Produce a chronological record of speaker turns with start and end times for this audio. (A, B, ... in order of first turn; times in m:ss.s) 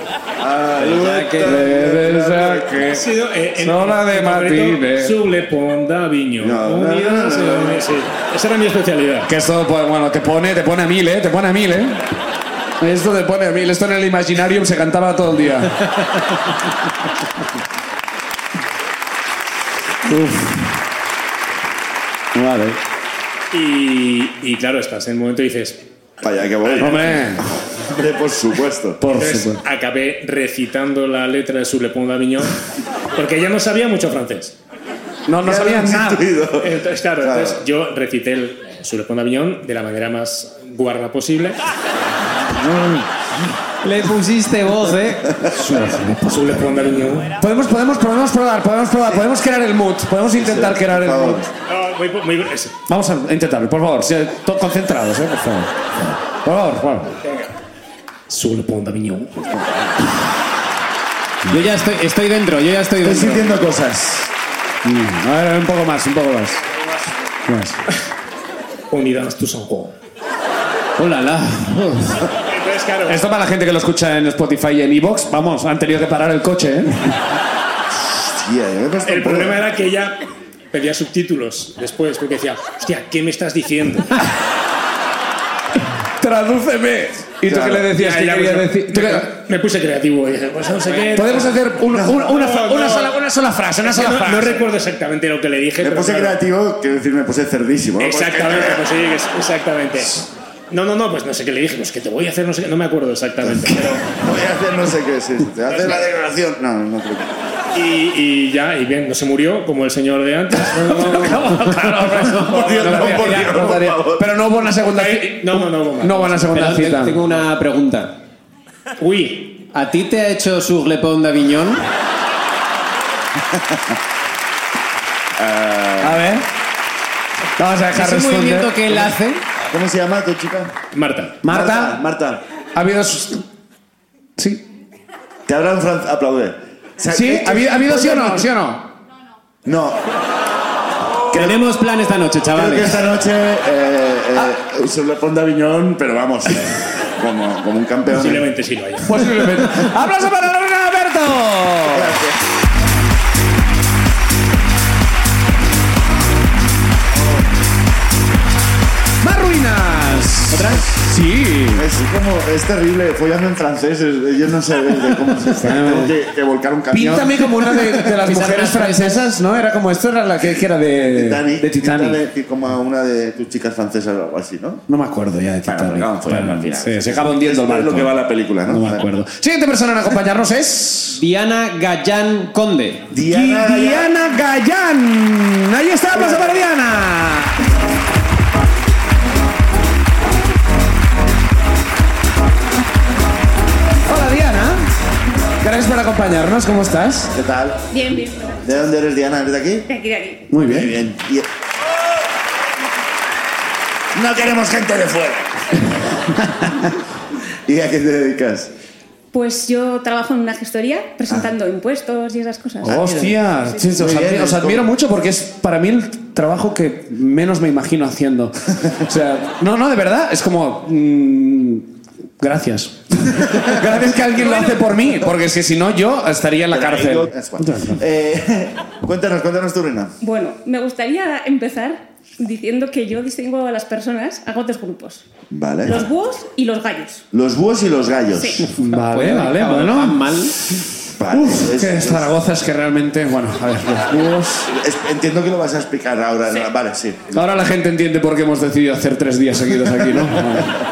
0:00.4-0:02.7 A
0:00.8-0:01.6 B
0:01.4-0:03.0 C
0:02.8-0:09.3 D
0:03.6-0:05.2 C
0:06.4-0:07.9 A
0:09.3-0:12.0 C
0:12.8-0:15.9 C
0:20.0-0:20.7 C
0:22.3-0:22.8 C
0:23.5-0:25.8 D
0:26.2-0:29.0 A
0:26.6-0:27.1 D
0:26.8-0:27.5 C
0:29.0-0:29.6 C
0:29.1-0:32.6 D
0:33.1-0:34.6 D
0:35.3-0:36.2 C
0:35.4-0:37.6 A
0:36.6-0:41.6 D
0:42.5-0:43.0 C
0:43.8-0:45.4 B
0:45.5-0:46.4 C
0:46.2-0:47.4 D
0:47.4-0:51.5 C
0:50.3-0:51.5 A
0:51.7-0:52.8 D
0:52.9-0:55.7 C
0:56.3-0:57.2 C
0:58.3-0:59.4 D
1:01.5-1:03.6 B
1:03.0-1:04.3 A
1:04.8-1:06.6 C
1:07.5-1:07.8 C
1:08.9-1:09.9 D
1:11.0-1:12.1 B
1:12.5-1:13.2 D
1:13.1-1:17.2 C
1:18.1-1:19.6 A
1:19.0-1:20.2 D
1:20.7-1:24.2 D
1:26.2-1:29.3 C
1:27.5-1:27.9 A
1:27.9-1:33.2 D
1:31.1-1:34.6 C
1:33.8-1:36.4 D
1:35.8-1:38.9 A
1:38.0-1:44.2 D
1:43.4-1:47.3 A
1:45.7-1:46.0 D
1:47.7-1:51.8 D
1:50.6-1:57.2 C
1:52.3-1:54.3 A
1:54.8-1:56.5 D
1:56.5-1:58.1 B
1:59.0-1:59.6 D
1:59.7-2:01.8 B
2:03.5-2:03.8 A
2:05.4-2:06.2 A
2:06.0-2:06.4 C
2:07.6-2:08.8 C
2:07.9-2:09.4 B
2:09.7-2:10.7 A
2:10.9-2:11.4 D
2:11.4-2:12.0 C
2:11.4-2:12.4 A
2:12.7-2:13.4 C
2:15.4-2:18.5 A
2:17.1-2:18.8 C
2:19.6-2:20.0 A
2:21.3-2:21.6 A
2:21.3-2:23.0 B
2:22.5-2:28.5 A
2:28.1-2:29.6 D
2:29.0-2:32.1 C
2:31.8-2:32.4 A
2:37.1-2:37.4 A
2:39.2-2:41.8 C
2:40.5-2:40.9 B
2:41.7-2:48.0 A
2:45.6-2:46.1 C
2:46.9-2:52.2 C
2:48.1-2:49.3 B
2:51.0-2:54.8 A
2:54.9-2:58.1 C
2:55.6-2:59.0 A
2:58.7-3:01.2 C
3:01.1-3:03.0 B
3:03.1-3:04.2 A
3:03.2-3:07.6 C
3:06.1-3:06.6 A
3:14.1-3:14.9 C
3:15.6-3:17.3 C
3:17.3-3:17.8 A
3:17.9-3:18.6 E
3:18.6-3:19.9 A
3:19.9-3:20.5 E
3:20.5-3:21.0 C
3:20.6-3:21.5 A
3:24.1-3:25.8 A
3:27.7-3:28.7 A
3:29.3-3:33.0 E
3:32.8-3:41.8 C
3:32.8-3:33.4 A
3:33.9-3:34.9 A
3:42.4-3:48.0 C
3:44.5-3:44.8 E
3:46.7-3:50.1 A
3:50.2-3:55.3 E
3:55.5-3:56.1 A
3:55.8-3:57.2 E
3:57.3-3:58.6 A
3:58.3-3:58.6 E
3:58.7-4:04.7 C
3:58.8-4:00.6 B
4:01.2-4:02.3 A
4:04.7-4:07.4 A
4:07.3-4:10.8 C
4:09.9-4:10.6 A